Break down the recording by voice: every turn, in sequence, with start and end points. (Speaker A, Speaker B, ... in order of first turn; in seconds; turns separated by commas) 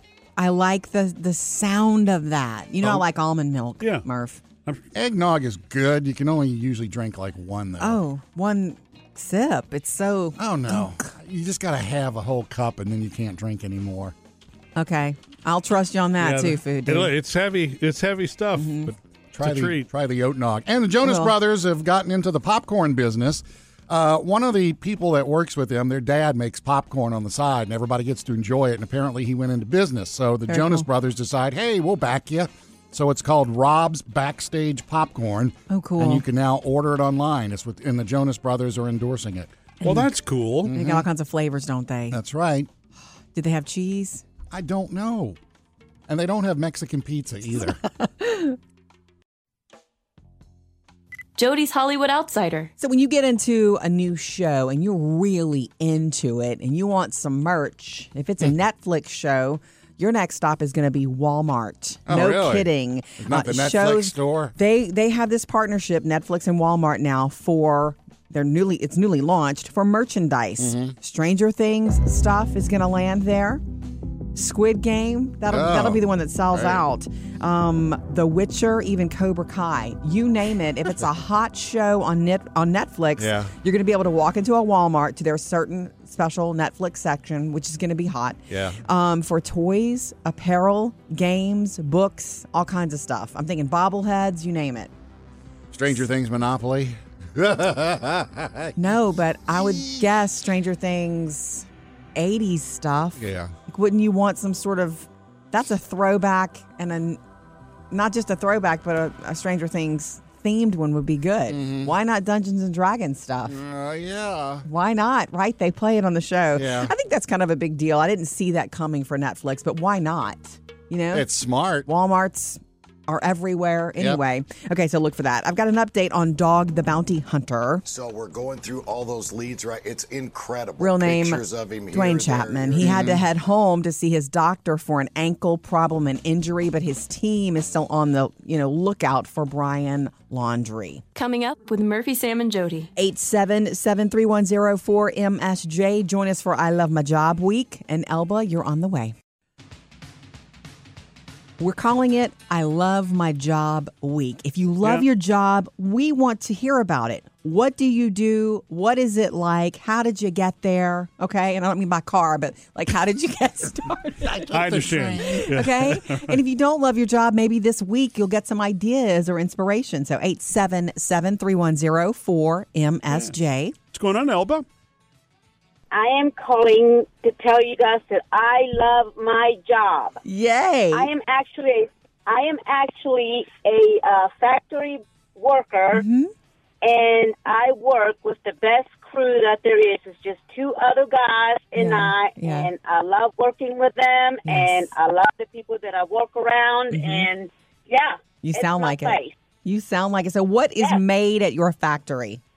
Speaker A: 0.4-4.4, Speaker B: 3.8-4.0, Speaker C: 4.9-8.0, Speaker A: 7.8-11.0, Speaker C: 10.4-14.1, Speaker A: 14.8-17.1, Speaker B: 16.2-19.9, Speaker A: 18.6-18.9, Speaker C: 19.3-39.5, Speaker A: 21.0-21.3, Speaker A: 30.5-30.9, Speaker A: 35.7-36.2, Speaker A: 39.8-40.1, Speaker B: 39.8-40.7, Speaker C: 40.6-41.1, Speaker A: 40.7-42.2, Speaker C: 42.1-42.7, Speaker A: 43.3-44.2, Speaker C: 44.5-45.4, Speaker C: 46.1-47.8, Speaker A: 48.2-48.5, Speaker D: 51.4-52.7, Speaker A: 52.8-73.6, Speaker C: 62.1-64.5, Speaker C: 70.6-70.9, Speaker A: 74.3-94.9, Speaker C: 75.5-76.8, Speaker C: 83.2-83.5, Speaker C: 88.5-88.8, Speaker C: 95.7-98.8, Speaker A: 98.8-107.2, Speaker C: 99.5-100.0, Speaker C: 103.2-103.5, Speaker A: 107.9-113.6, Speaker C: 111.5-111.9, Speaker C: 113.5-114.6, Speaker A: 114.6-121.3, Speaker C: 116.5-116.9, Speaker C: 121.1-121.9, Speaker A: 121.8-127.8, Speaker E: 127.9-133.1, Speaker A: 130.8-141.0, Speaker C: 132.8-133.2, Speaker D: 141.1-142.9, Speaker A: 142.9-149.1, Speaker A: 151.6-164.5, Speaker C: 164.2-165.5, Speaker B: 164.5-166.4, Speaker A: 165.2-173.7, Speaker B: 173.9-174.7, Speaker F: 175.9-180.2, Speaker A: 180.2-181.1, Speaker F: 180.9-186.0, Speaker A: 185.9-186.3, Speaker F: 186.8-199.3, Speaker A: 191.8-192.7, Speaker A: 194.4-194.8, Speaker A: 196.9-197.3, Speaker A: 198.4-202.4